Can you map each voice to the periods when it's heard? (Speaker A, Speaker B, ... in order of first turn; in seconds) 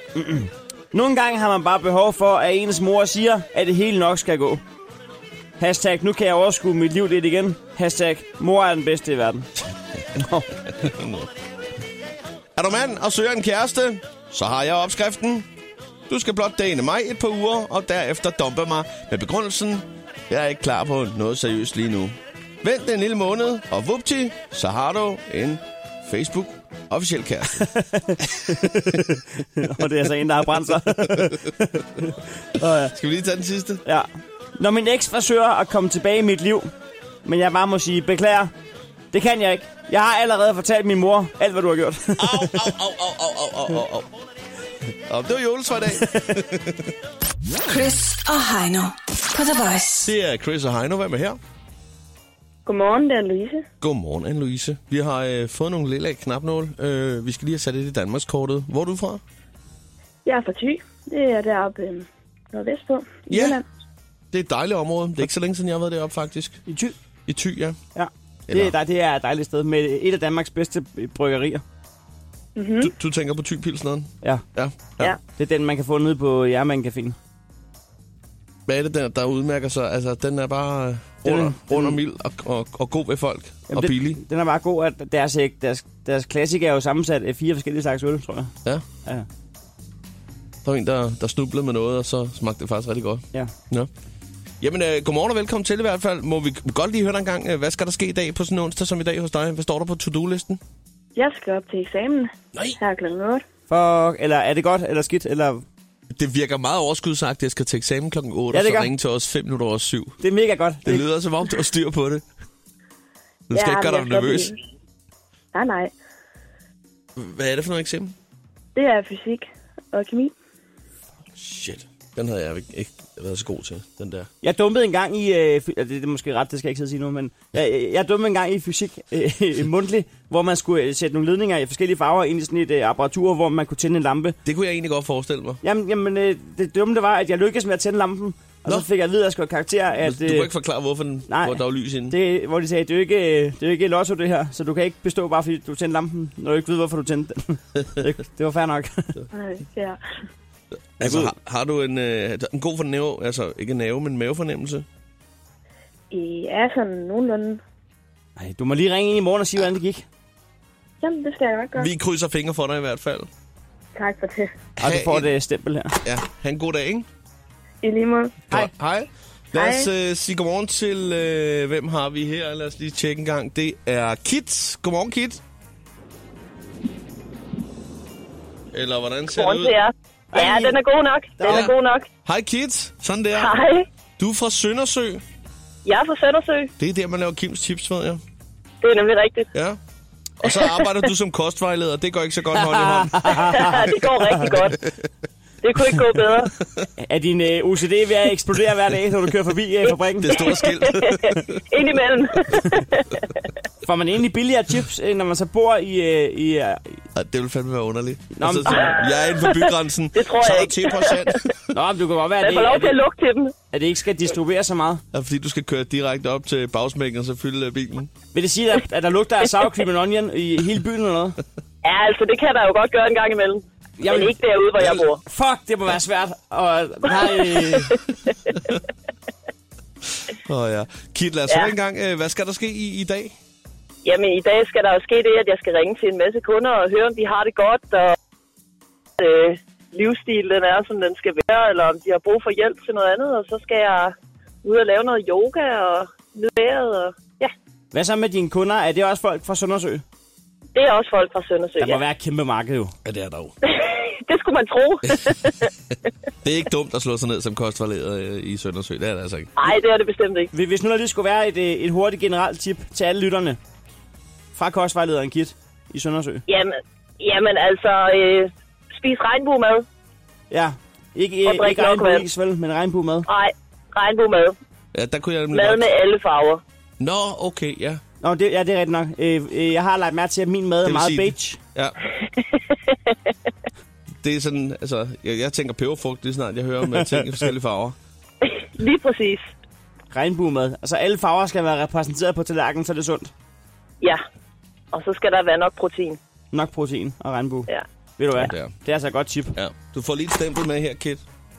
Speaker A: 0.1-4.6, 5.6-9.5, 10.1-10.5, 27.7-32.9, 33.9-36.7, 37.2-38.5, 39.1-42.6, 66.7-66.9, 67.9-71.6, 75.1-77.2, 81.2-82.0, 83.7-88.5, 103.7-105.6, 108.5-108.9, 110.2-111.0, 124.4-134.4, 135.6-140.5, 141.3-149.2, 151.0-151.3, 158.4-160.0, 164.8-166.0, 180.3-180.8, 181.4-181.7, 192.8-193.8, 197.0-200.3, 203.8-207.0, 208.3-209.0, 211.7-213.0, 213.7-215.0, 218.3-221.4, 224.0-224.3, 225.2-227.9, 247.9-250.0, 251.8-252.9, 260.5-263.6, 264.5-266.4, 270.5-273.3, 278.2-281.6, 290.1-293.3, 296.5-299.5
Speaker B: 10.7-11.3, 12.6-15.5, 16.1-27.7, 28.2-29.0, 32.9-33.8, 42.2-44.1, 45.1-46.9, 50.0-51.4, 53.8-59.2, 63.3-63.6, 64.3-66.6, 67.3-67.8, 68.5-68.8, 72.8-75.1, 78.7-84.2, 90.6-93.9, 94.6-100.6, 106.1-110.2, 110.8-112.2, 113.5-114.5, 117.2-118.1, 121.4-124.3, 134.4-135.6, 140.0-142.2, 151.0-154.9, 161.8-163.3, 164.8-165.3, 166.0-167.1, 168.5-175.4, 178.7-179.8, 181.4-181.7, 182.2-183.6, 184.2-185.2, 186.8-188.2, 189.5-189.8, 190.4-193.5, 200.2-201.6, 207.1-211.5, 215.1-218.1, 230.4-233.3, 253.0-253.5, 255.0-255.4, 256.4-259.5, 274.9-275.9, 277.0-278.0, 280.8-282.0, 284.2-288.0, 298.4-298.7, 299.5-301.2
Speaker C: 47.7-50.1
Speaker D: 52.6-53.6, 60.2-63.6, 72.6-72.9, 101.2-103.4, 113.5-114.6, 115.5-115.9, 118.8-120.3, 149.3-150.0, 156.1-157.6, 161.0-161.9, 163.9-164.5, 167.8-168.4, 169.5-169.9
Speaker E: 179.3-182.1, 183.4-183.9, 185.8-186.7, 188.8-189.5, 190.4-190.9, 193.5-194.8, 195.6-196.5, 200.4-203.4, 209.0-211.4, 212.4-213.5, 221.8-225.2, 234.0-238.2, 239.2-247.5, 250.8-252.0, 253.6-255.7, 259.6-260.5, 266.5-269.9, 271.4-272.2, 273.3-274.6, 275.5-276.6, 282.4-283.3, 288.4-289.5, 294.9-296.2